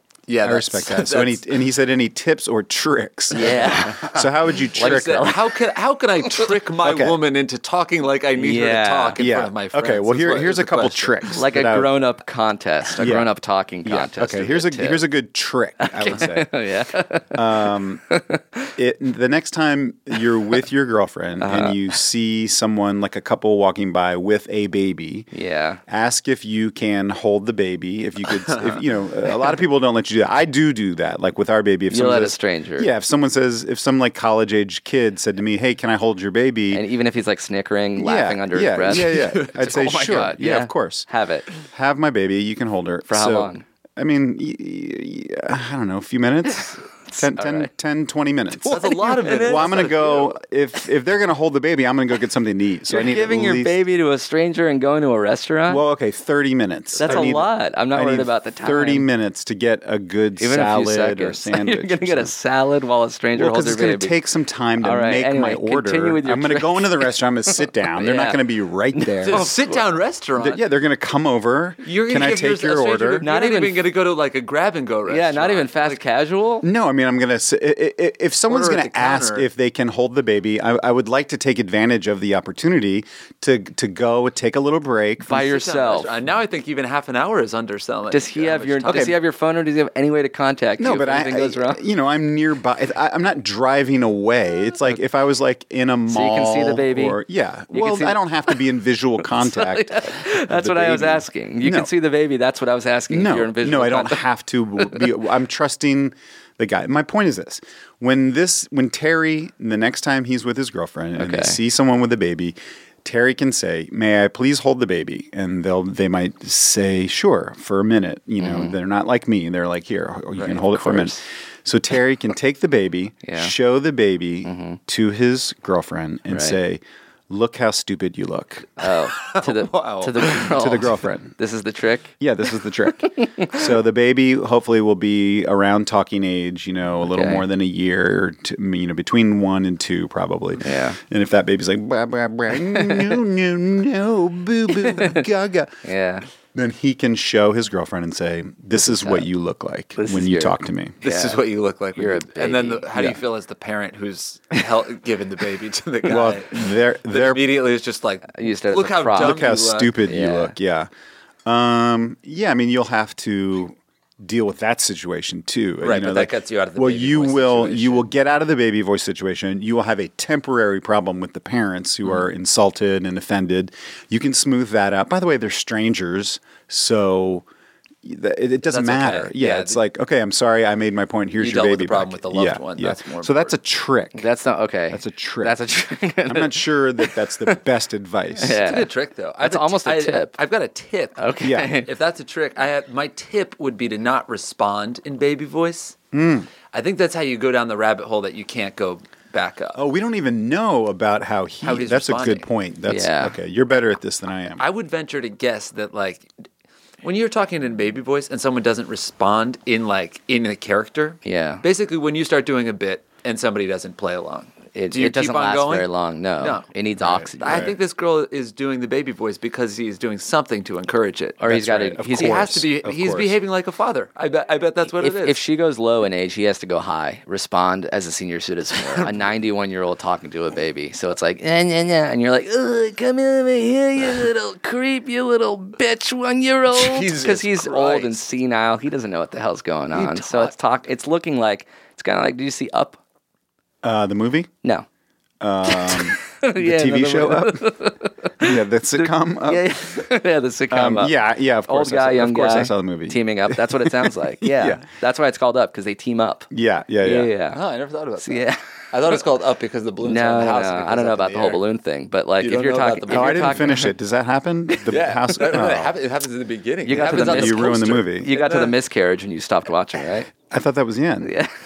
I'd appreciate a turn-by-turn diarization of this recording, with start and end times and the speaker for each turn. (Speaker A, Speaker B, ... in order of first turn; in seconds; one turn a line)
Speaker A: 0.3-1.5
Speaker B: 0.4-5.4
Speaker C: 3.3-5.3
Speaker A: 3.4-3.8
Speaker A: 4.8-11.3
Speaker B: 6.8-7.2
Speaker C: 8.4-9.2
Speaker B: 9.2-11.9
Speaker C: 11.3-15.0
Speaker B: 13.0-13.3
Speaker B: 13.8-16.5
Speaker C: 15.8-18.7
Speaker B: 17.3-18.0
Speaker B: 18.8-25.3
Speaker C: 21.4-21.8
Speaker C: 25.3-25.8
Speaker B: 25.9-36.8
Speaker C: 31.9-32.9
Speaker C: 36.7-41.5
Speaker B: 38.0-41.1
Speaker A: 39.0-39.9
Speaker B: 41.7-53.8
Speaker C: 43.1-43.6
Speaker C: 47.1-47.7
Speaker C: 48.6-49.9
Speaker A: 48.7-50.4
Speaker C: 52.9-55.8
Speaker B: 55.7-62.3
Speaker A: 57.0-57.4
Speaker C: 57.0-59.1
Speaker C: 60.4-64.2
Speaker B: 63.3-69.5
Speaker C: 64.8-67.1
Speaker C: 68.0-68.4
Speaker C: 69.0-69.8
Speaker A: 69.2-70.6
Speaker B: 70.4-73.2
Speaker A: 71.8-76.0
Speaker C: 73.2-73.8
Speaker C: 75.1-76.7
Speaker B: 76.6-85.5
Speaker A: 78.5-79.5
Speaker C: 85.2-86.1
Speaker A: 85.3-89.2
Speaker C: 88.1-91.8
Speaker B: 90.8-101.9
Speaker C: 96.1-97.2
Speaker C: 97.7-98.6
Speaker C: 99.3-104.2
Speaker B: 103.1-128.8
Speaker C: 111.2-111.6
Speaker C: 118.4-118.8
Speaker C: 120.5-121.2
Speaker C: 123.2-123.5
Speaker C: 124.5-124.8
Speaker C: 126.3-126.6
Speaker C: 128.8-132.2
Speaker A: 129.2-130.5
Speaker B: 130.3-131.3
Speaker B: 132.2-145.8
Speaker C: 133.2-133.6
Speaker C: 137.1-137.4
Speaker C: 140.6-141.0
Speaker C: 142.7-143.0
Speaker C: 144.9-145.2
Speaker C: 145.8-146.2
Speaker B: 146.5-151.0
Speaker C: 148.8-149.3
Speaker C: 150.0-151.4
Speaker A: 151.0-160.0
Speaker C: 152.0-153.2
Speaker B: 156.0-157.6
Speaker C: 158.3-159.5
Speaker B: 159.1-160.9
Speaker C: 160.1-160.5
Speaker B: 161.4-177.5
Speaker A: 165.8-168.1
Speaker B: 178.0-184.3
Speaker A: 178.7-179.8
Speaker A: 181.4-183.5
Speaker C: 184.2-187.6
Speaker B: 184.9-185.6
Speaker B: 186.2-188.6
Speaker C: 188.4-190.3
Speaker A: 188.6-191.2
Speaker C: 191.2-191.9
Speaker B: 191.4-191.8
Speaker A: 191.8-196.0
Speaker B: 196.1-196.5
Speaker A: 196.7-199.8
Speaker B: 199.8-204.6
Speaker A: 201.6-202.5
Speaker C: 202.9-203.3
Speaker A: 204.6-206.3
Speaker A: 207.0-215.9
Speaker C: 211.2-211.6
Speaker C: 214.8-217.7
Speaker A: 216.4-216.7
Speaker B: 217.0-217.7
Speaker A: 217.4-225.4
Speaker C: 221.4-222.5
Speaker B: 221.4-223.4
Speaker C: 224.9-243.0
Speaker A: 236.7-238.2
Speaker A: 239.9-240.5
Speaker B: 243.8-244.5
Speaker B: 245.4-247.7
Speaker C: 245.7-251.1
Speaker B: 248.4-249.7
Speaker B: 250.7-254.8
Speaker C: 251.7-256.5
Speaker B: 256.5-257.3
Speaker C: 257.0-257.6
Speaker A: 257.5-261.6
Speaker C: 258.2-258.6
Speaker C: 260.0-263.9
Speaker A: 262.4-263.8
Speaker B: 263.1-265.9
Speaker A: 264.9-268.7
Speaker C: 266.9-270.3
Speaker B: 266.9-268.3
Speaker B: 270.3-271.3
Speaker C: 271.2-271.5